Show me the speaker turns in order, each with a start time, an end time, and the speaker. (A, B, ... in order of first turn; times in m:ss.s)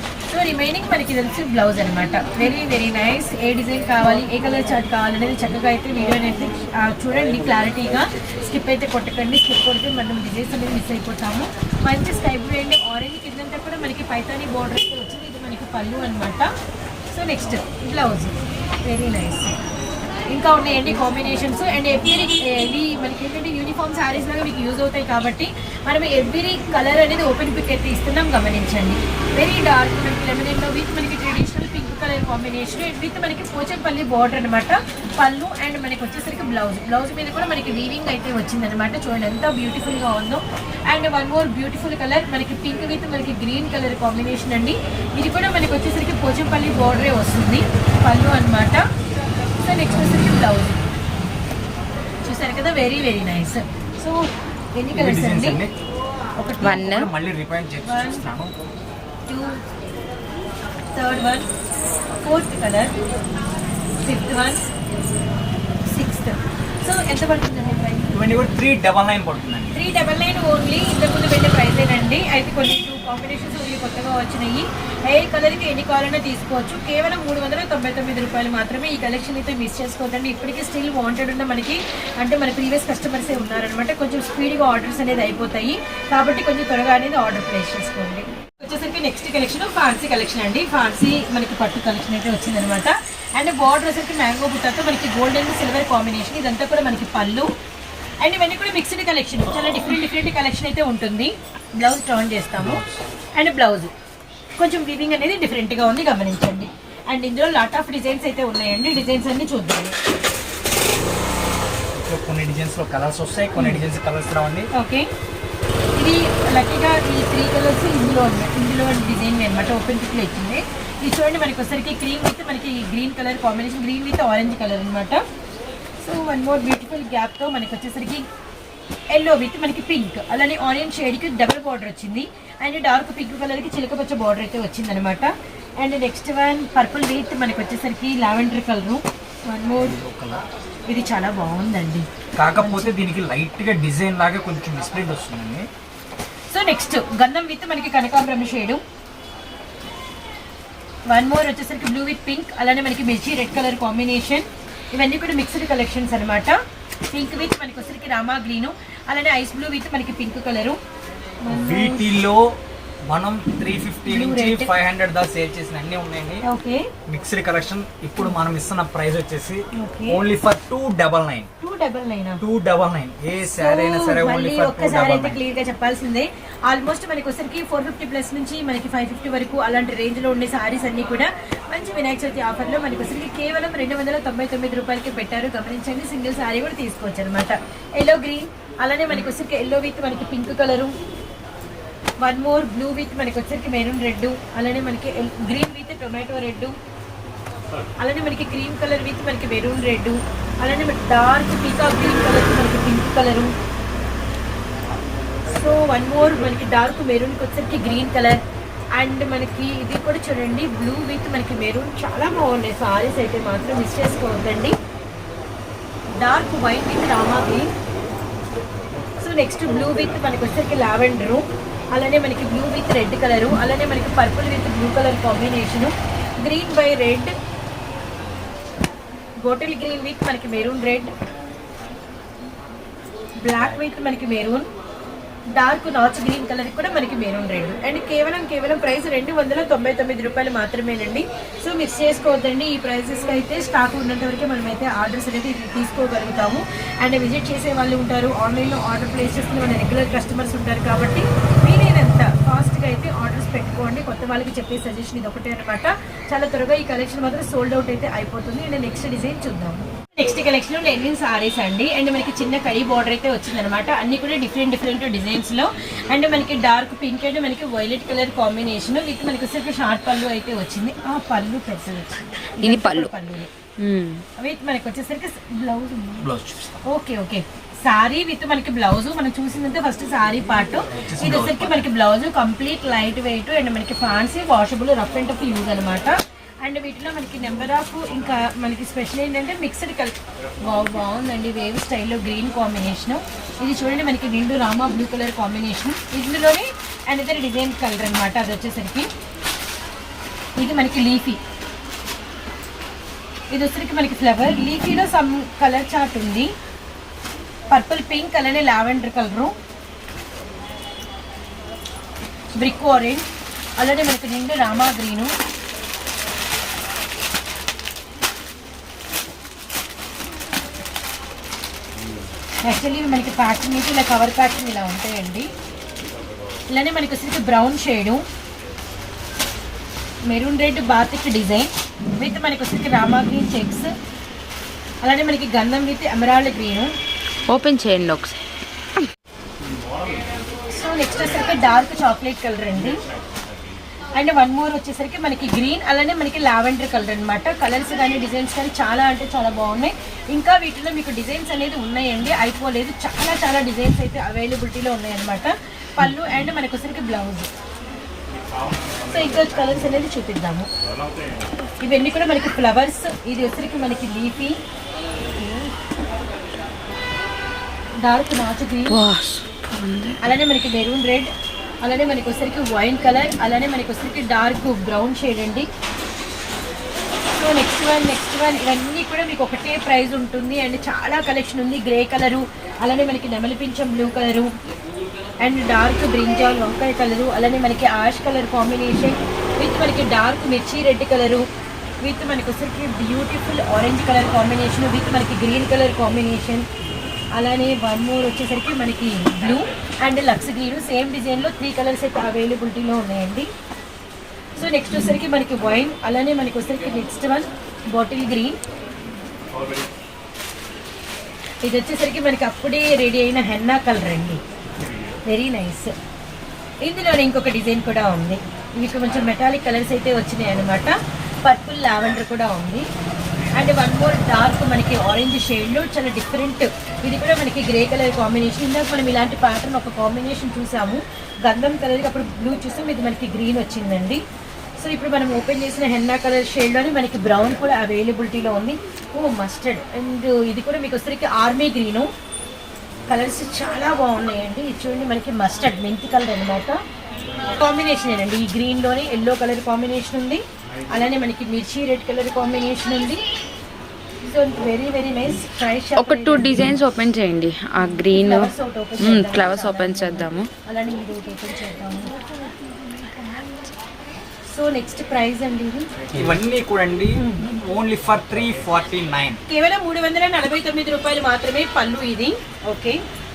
0:00.3-0:16.5 A
0:17.1-0:18.3 A
0:18.8-0:19.5 A
0:20.3-0:48.9 A
0:49.6-0:50.8 A
0:52.2-0:55.6 A
0:54.9-0:55.7 B
0:56.3-0:57.0 A
0:56.6-0:57.1 C
0:56.9-0:58.5 B
0:57.8-0:58.2 A
0:59.3-0:59.6 A
1:00.9-1:01.5 A
1:02.2-1:02.9 A
1:04.0-1:04.6 A
1:05.8-1:08.1 A
1:08.1-1:09.8 B
1:09.7-1:37.5 A
1:38.2-1:42.8 A
1:42.6-1:43.0 B
1:43.3-1:43.9 A
1:44.6-1:50.0 A
1:51.9-1:54.7 B
1:53.6-1:53.8 A
1:54.7-1:55.1 A
1:56.0-2:05.2 A
2:06.0-2:08.3 A
2:09.1-2:20.0 A
2:19.8-2:20.4 B
2:20.9-2:22.1 A
2:22.4-2:25.7 B
2:22.6-2:22.9 A
2:26.5-2:28.8 A
2:31.1-2:36.6 A
2:37.1-2:40.8 A
2:41.4-2:42.2 A
2:41.5-2:46.4 B
2:44.1-2:44.7 A
2:46.4-2:46.9 A
2:47.1-2:51.5 B
2:49.7-2:50.2 A
2:51.6-2:52.4 A
2:52.4-2:55.4 B
2:53.6-3:10.9 A
3:12.2-3:16.7 A
3:18.0-3:23.5 A
3:25.5-3:28.4 A
3:28.9-3:34.7 A
3:36.2-3:37.7 A
3:39.2-3:47.3 A
3:49.4-3:51.1 A
3:53.4-3:54.7 A
3:53.5-3:53.8 B
3:55.6-4:33.5 A
4:32.6-4:33.1 C
4:33.8-4:34.2 C
4:34.4-4:36.3 A
4:36.2-4:36.9 B
4:36.8-4:59.1 A
4:40.9-4:41.9 B
5:00.6-5:01.4 A
5:03.5-5:06.5 A
5:07.7-5:09.5 A
5:12.6-5:13.3 A
5:13.8-5:15.3 A
5:22.6-5:25.5 A
5:26.7-5:28.2 A
5:30.3-5:33.9 A
5:35.0-5:36.9 A
5:37.5-5:38.4 C
5:40.7-5:42.9 A
5:44.2-5:57.5 A
5:59.1-6:00.7 A
6:01.8-6:04.6 A
6:08.0-6:09.0 A
6:08.9-6:10.2 C
6:10.2-6:11.3 A
6:11.8-6:15.7 A
6:17.3-6:24.5 A
6:25.4-6:31.4 A
6:32.0-6:36.6 A
6:37.4-6:43.5 A
6:44.6-6:48.6 A
6:51.6-6:54.4 A
6:55.3-6:55.9 A
6:56.8-7:02.9 A
7:03.5-7:14.2 A
7:14.8-7:22.1 A
7:23.1-7:26.8 A
7:27.6-7:33.2 A
7:34.3-7:36.8 A
7:35.9-7:40.5 C
7:38.1-7:42.1 A
7:44.5-7:45.9 A
7:46.1-7:49.4 B
7:47.1-7:47.4 A
7:49.5-7:53.0 A